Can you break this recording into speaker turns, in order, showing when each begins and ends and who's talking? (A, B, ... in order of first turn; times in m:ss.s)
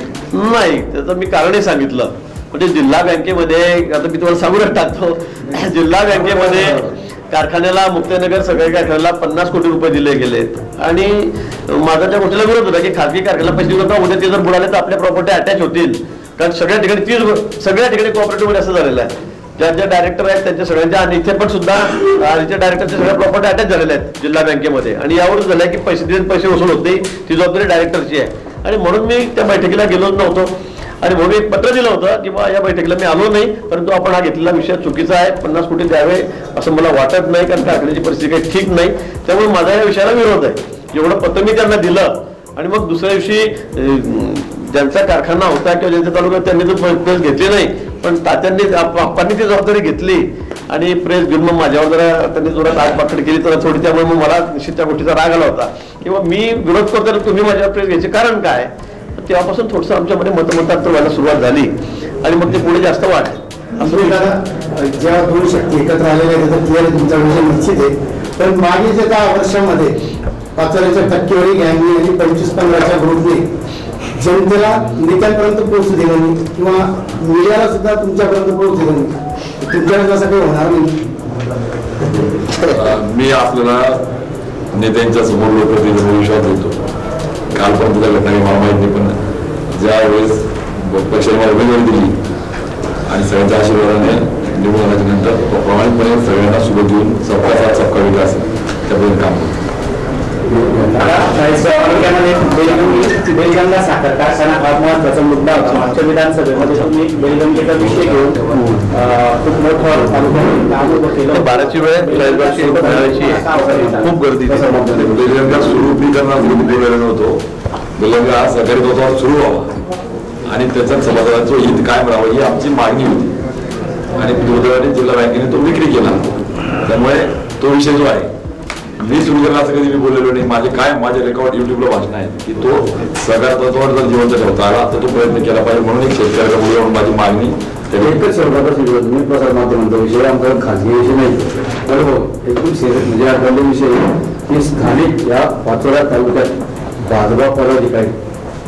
0:00.3-0:30.5 A
0:31.0-1:01.7 A
1:02.2-1:04.2 A
1:03.8-1:09.9 B
1:10.6-1:13.4 B
1:14.2-1:20.9 B
1:22.7-1:24.0 C
1:24.7-1:26.7 C
1:27.5-1:29.1 C
1:29.7-1:32.1 C
1:33.1-1:39.5 C
1:40.5-1:41.0 D
1:40.7-1:54.1 E
1:51.3-1:54.7 A
1:52.7-1:55.5 D
1:55.0-1:57.4 C
1:58.0-1:59.7 C
2:00.5-2:03.4 C
2:04.2-2:06.2 C
2:06.8-2:08.3 C
2:09.0-2:18.2 C
2:18.0-2:28.2 D